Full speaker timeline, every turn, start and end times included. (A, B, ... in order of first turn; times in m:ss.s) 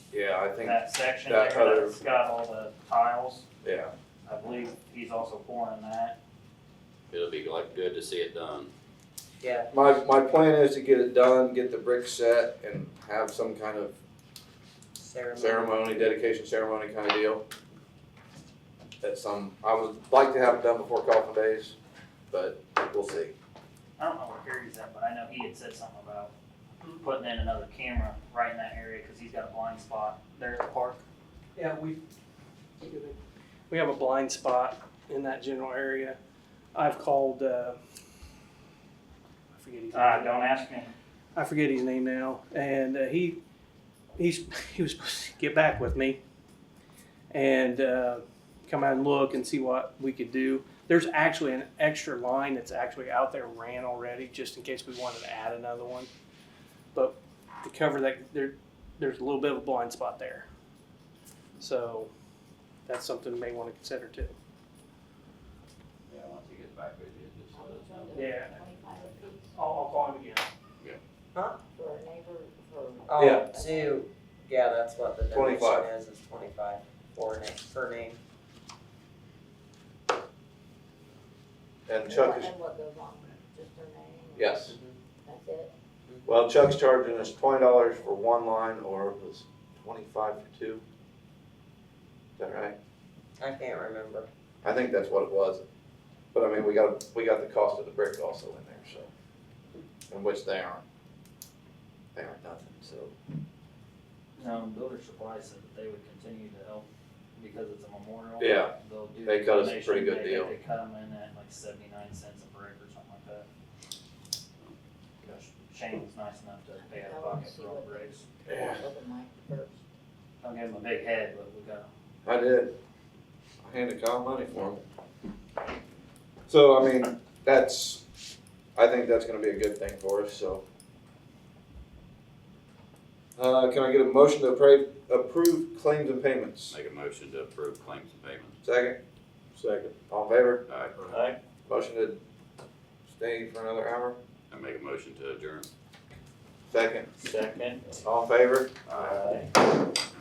0:00.1-0:02.0 A
0:00.6-0:03.4 B
0:03.6-0:03.9 A
0:04.3-0:06.2 B
0:07.1-0:08.7 C
0:09.4-0:09.7 D
0:09.7-0:14.0 A
0:15.0-0:16.1 D
0:15.3-0:17.4 A
0:19.0-0:21.8 A
0:22.3-0:23.3 A
0:24.0-0:26.3 B
0:26.9-0:31.0 B
0:31.6-0:32.0 E
0:32.8-0:33.2 E
0:33.7-0:36.2 E
0:36.7-0:37.8 E
0:39.5-0:40.5 E
0:39.9-0:40.9 B
0:41.4-0:43.4 E
0:44.2-0:46.2 E
0:47.3-0:56.1 E
0:56.9-1:00.5 E
1:01.6-1:02.1 E
1:02.9-1:04.4 E
1:06.1-1:08.4 C
1:07.6-1:09.6 F
1:08.1-1:08.6 E
1:09.6-1:10.5 E
1:11.4-1:11.6 D
1:11.7-1:14.0 F
1:13.1-1:18.2 D
1:13.2-1:13.5 A
1:15.3-1:15.9 A
1:21.9-1:22.5 A
1:22.0-1:24.4 F
1:24.4-1:24.8 A
1:24.6-1:25.0 D
1:25.3-1:25.7 F
1:26.3-1:30.8 A
1:32.4-1:32.8 A
1:33.4-1:34.3 D
1:34.6-1:35.6 A
1:36.3-1:39.1 A
1:40.1-1:40.8 A
1:42.2-1:43.1 A
1:44.4-1:53.5 B
1:48.4-1:48.7 A
1:49.2-1:50.5 A
1:55.2-1:58.3 B
1:56.8-1:59.8 F
1:58.5-1:58.9 A
2:00.4-2:01.9 B
2:02.2-2:02.8 A
2:03.6-2:04.8 A
2:06.5-2:08.0 A
2:08.8-2:10.6 A
2:13.4-2:16.8 A
2:16.7-2:18.6 C
2:18.6-2:19.0 A
2:20.1-2:20.6 A
2:20.7-2:21.1 C
2:21.1-2:21.4 B
2:21.7-2:22.2 A
2:23.1-2:24.2 A
2:24.5-2:25.7 C
2:26.7-2:27.1 A
2:27.2-2:28.0 B
2:28.0-2:28.8 A
2:28.9-2:29.5 B